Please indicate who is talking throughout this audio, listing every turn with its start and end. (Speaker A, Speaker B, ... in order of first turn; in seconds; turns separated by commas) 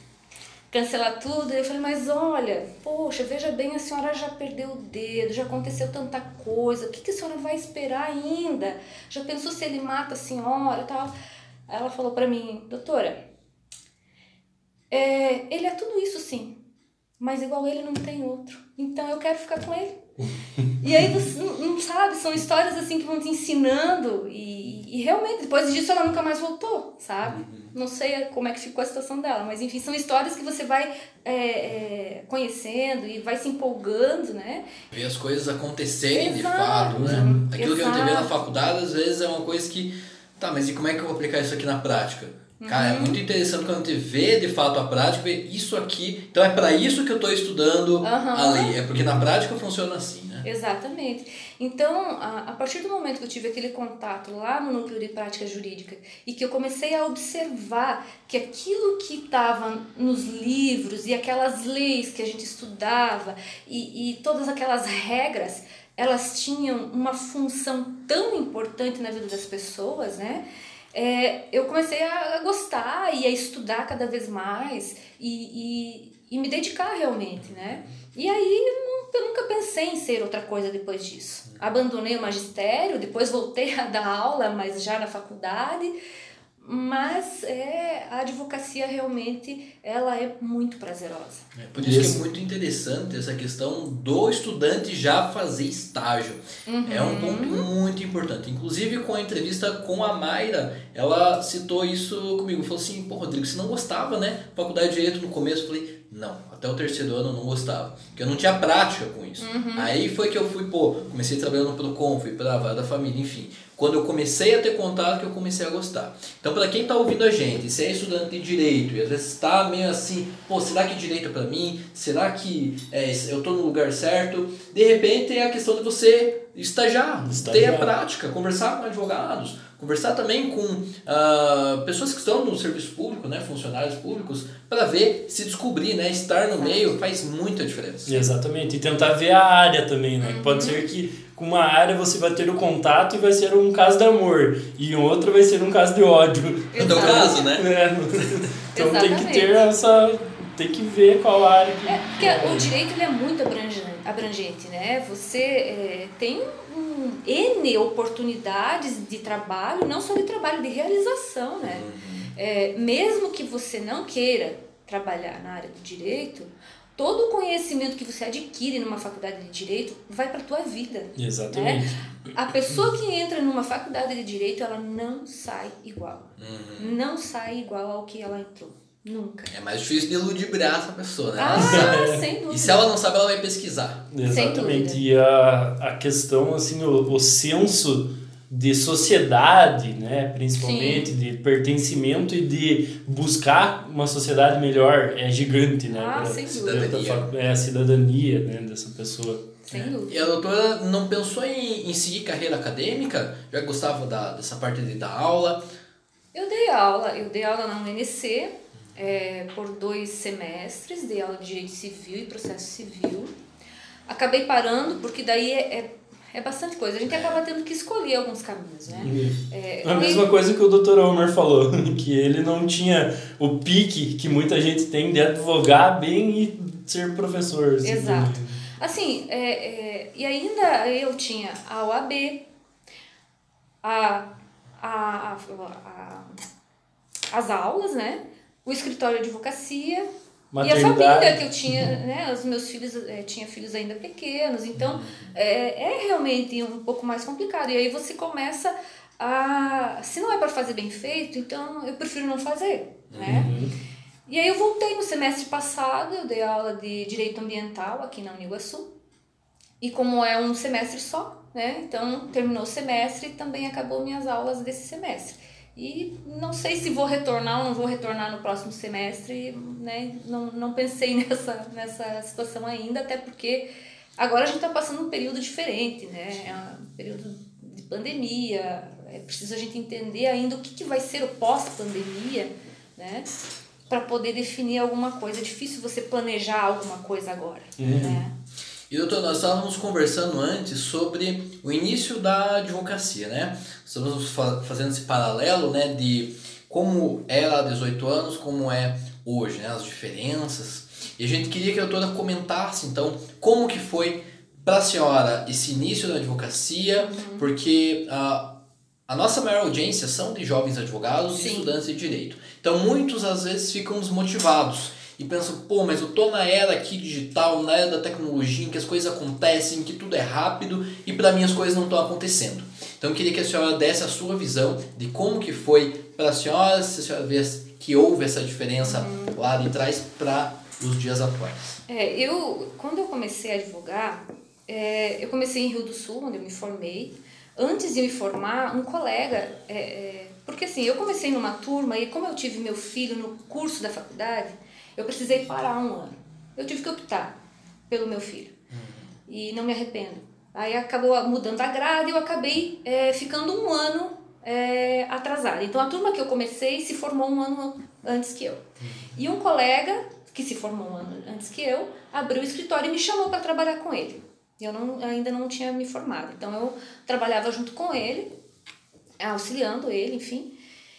Speaker A: 0.7-11.1, Speaker A: 11.7-13.2, Speaker A: 14.9-16.6, Speaker A: 17.2-20.0, Speaker A: 20.8-34.6, Speaker B: 27.2-27.7, Speaker B: 34.9-50.5, Speaker A: 36.1-38.3, Speaker C: 36.9-37.4, Speaker A: 42.6-43.2, Speaker A: 48.0-48.7, Speaker A: 50.4-85.9, Speaker B: 77.4-77.9, Speaker A: 86.6-91.5, Speaker B: 91.5-138.2, Speaker C: 91.8-92.2, Speaker A: 96.7-97.7, Speaker A: 109.4-109.9, Speaker C: 127.2-127.9, Speaker A: 136.6-136.9, Speaker C: 138.1-152.7, Speaker A: 140.2-140.8, Speaker A: 146.7-147.5, Speaker B: 146.8-148.4, Speaker A: 148.7-149.6, Speaker A: 151.8-161.8, Speaker B: 161.6-162.3, Speaker A: 162.3-179.5, Speaker C: 171.2-172.0, Speaker B: 176.4-176.9, Speaker B: 179.5-184.1, Speaker A: 181.4-182.8, Speaker C: 181.6-182.2, Speaker C: 184.1-199.4, Speaker A: 184.2-185.0, Speaker A: 190.6-191.1, Speaker A: 195.9-197.0, Speaker B: 196.5-197.3, Speaker A: 199.7-200.1, Speaker B: 199.7-205.6, Speaker A: 206.3-213.3, Speaker A: 214.1-220.2, Speaker B: 217.1-217.4, Speaker C: 219.0-228.5, Speaker A: 227.8-232.4, Speaker A: 233.8-234.3, Speaker A: 234.8-236.4, Speaker A: 237.3-240.1, Speaker C: 240.5-241.9, Speaker A: 240.6-253.5, Speaker B: 244.7-245.3, Speaker B: 253.1-253.5, Speaker C: 253.2-253.7, Speaker A: 254.3-258.9, Speaker A: 259.8-283.3, Speaker A: 283.9-288.3, Speaker C: 287.8-288.2, Speaker B: 288.9-308.5, Speaker A: 307.0-307.5, Speaker B: 309.1-331.7, Speaker A: 311.3-311.7, Speaker A: 328.8-329.4, Speaker A: 331.9-347.3, Speaker A: 347.9-348.5, Speaker B: 348.7-349.1, Speaker A: 349.3-368.3, Speaker B: 358.8-359.1, Speaker A: 369.2-370.5